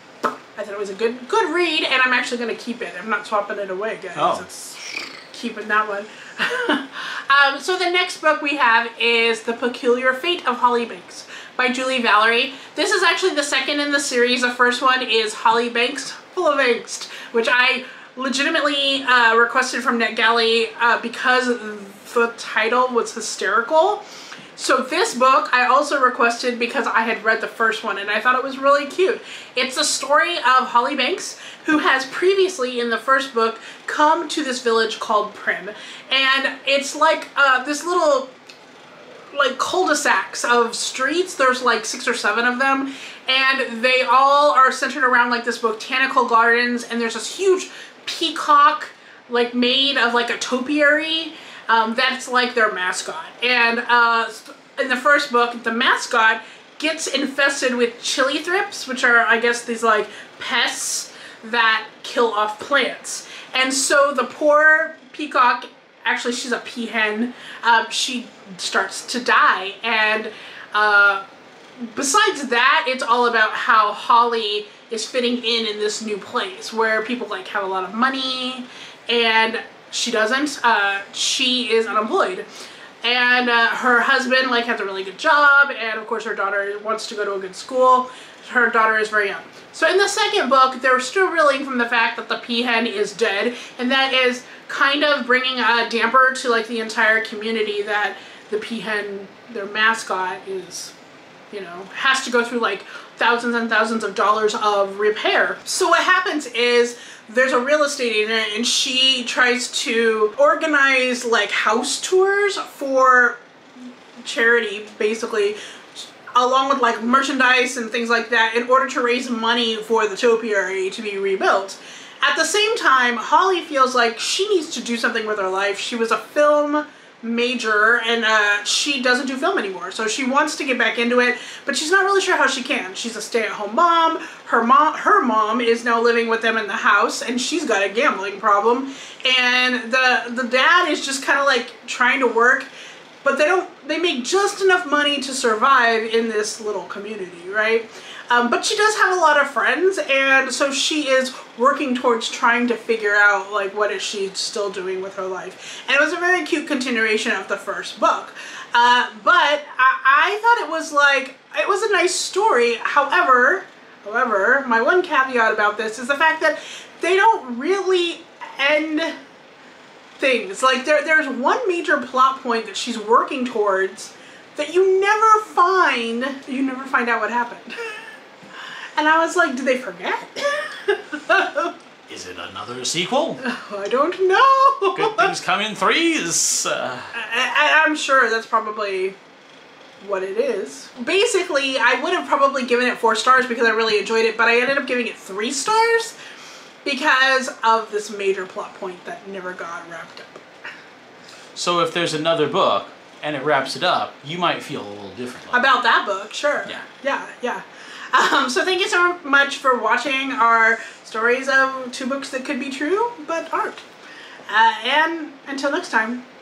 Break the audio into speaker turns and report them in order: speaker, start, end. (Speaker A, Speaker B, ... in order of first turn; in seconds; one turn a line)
Speaker A: 0.2-4.8
Speaker B: 4.1-4.5
Speaker A: 5.3-24.0
Speaker A: 24.5-38.3
Speaker A: 39.3-71.2
Speaker A: 71.8-82.5
Speaker A: 83.0-100.9
Speaker A: 101.5-113.4
Speaker A: 114.2-142.7
Speaker A: 143.2-169.1
Speaker A: 170.2-177.9
Speaker A: 179.0-181.7
Speaker B: 182.1-183.4
Speaker A: 183.4-185.3
Speaker B: 184.9-187.1
Speaker A: 187.1-189.2
Speaker A: 190.0-196.2
Speaker A: 196.8-200.4
Speaker B: 201.6-205.6
Speaker A: 205.5-213.8
Speaker A: 214.5-216.2